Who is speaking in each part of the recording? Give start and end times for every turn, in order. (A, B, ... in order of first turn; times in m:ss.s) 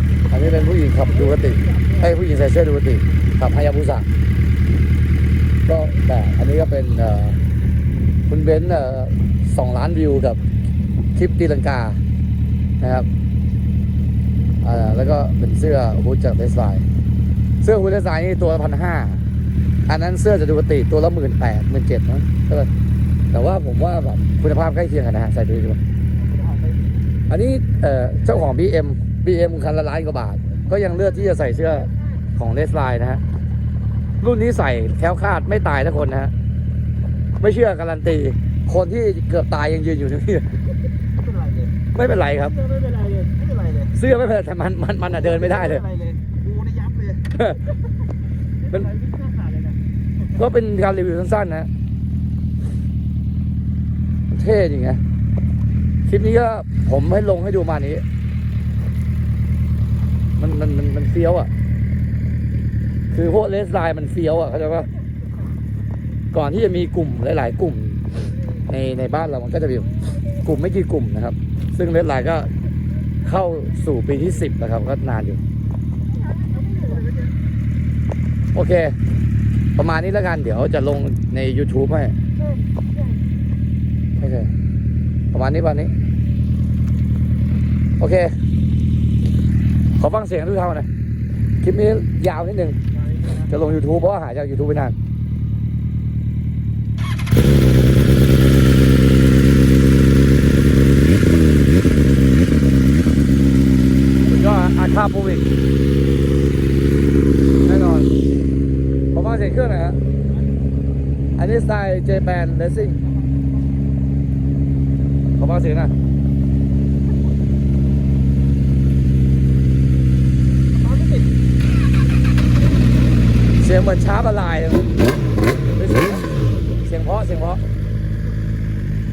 0:00.3-0:04.1 A
0:05.7-0:07.4 A
0:08.3-0:10.4 A
0:11.1-0:12.0 A
0:12.8-0:13.1 A
0:14.6-0:16.8 A
0:17.6-0:19.2 A
0:19.9-0:22.7 A
0:23.3-0:25.8 A
0:26.4-0:26.7 B
0:27.3-0:33.2 A
0:34.2-0:36.3 A
0:37.4-0:40.5 A
0:41.3-0:41.6 B
0:41.9-0:42.6 A
0:42.6-0:43.8 B
0:43.9-0:45.9 A
0:45.8-0:47.2 B
0:48.9-0:49.7 B
0:50.3-0:51.7 A
0:54.3-0:55.0 A
0:56.0-0:58.0 A
1:00.4-1:01.5 A
1:03.1-1:04.9 A
1:06.3-1:08.0 A
1:08.6-1:12.5 A
1:13.2-1:15.4 A
1:16.3-1:17.2 B
1:18.5-1:18.9 A
1:19.8-1:22.1 A
1:24.2-1:24.5 A
1:25.3-1:25.9 A
1:28.0-1:28.4 A
1:29.9-1:30.9 A
1:31.6-1:32.8 A
1:33.3-1:34.9 A
1:44.2-1:45.5 A
1:47.6-1:48.1 A
1:49.1-1:50.0 A
1:51.4-1:53.0 A
1:55.4-1:55.9 A
2:03.6-2:04.9 A
2:05.8-2:07.6 A